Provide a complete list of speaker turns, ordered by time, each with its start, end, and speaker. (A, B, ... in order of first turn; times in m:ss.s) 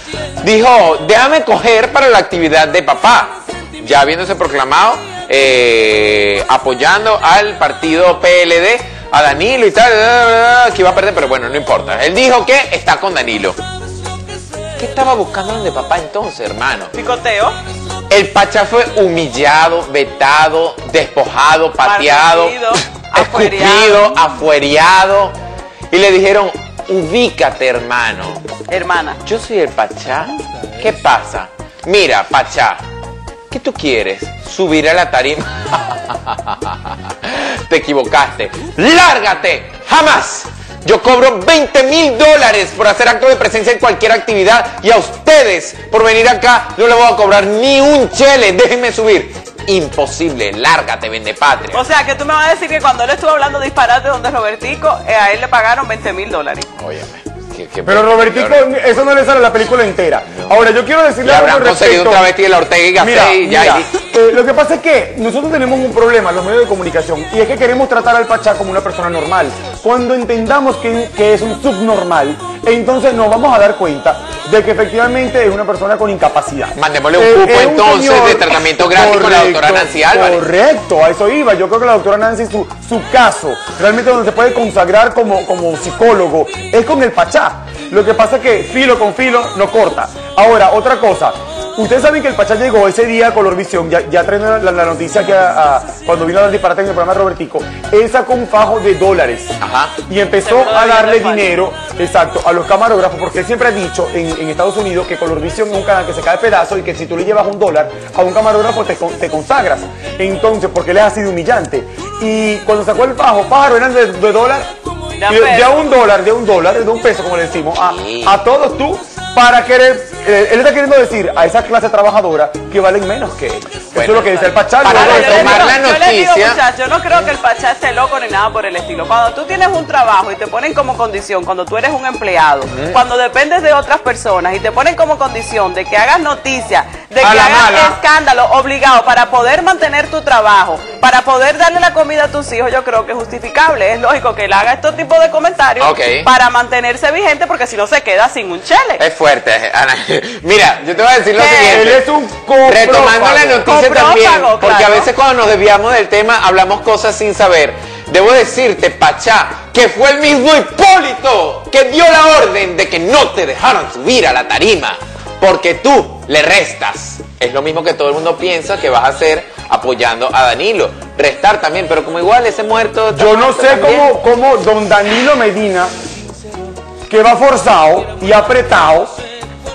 0:00.4-0:13.6 A
0:14.8-0:16.9 A
0:16.9-0:17.6 B
0:18.1-0:25.4 A
0:21.8-0:24.0 B
0:25.9-0:28.4 A
0:28.7-0:29.2 B
0:29.2-0:32.8 A
0:33.5-0:51.8 A
0:51.7-0:56.7 B
0:56.8-0:58.6 A
0:57.8-1:02.3 C
1:00.3-1:00.6 A
1:01.2-1:03.9 A
1:03.0-1:54.7 C
1:16.7-1:20.4 A
1:39.6-1:39.9 A
1:40.4-1:41.6 B
1:55.2-1:55.8 B
1:55.3-2:05.8 C
1:57.8-1:58.4 A
2:03.9-2:06.6 A
2:04.8-2:29.0 B
2:12.7-2:13.0 A
2:17.2-2:18.0 A
2:25.8-2:26.3 A
2:29.0-2:32.0 A
2:31.4-2:31.8 B
2:31.7-2:33.7 C
2:32.6-2:54.2 A
2:33.6-2:35.1 B
2:53.1-2:55.9 C
2:57.1-2:59.1 C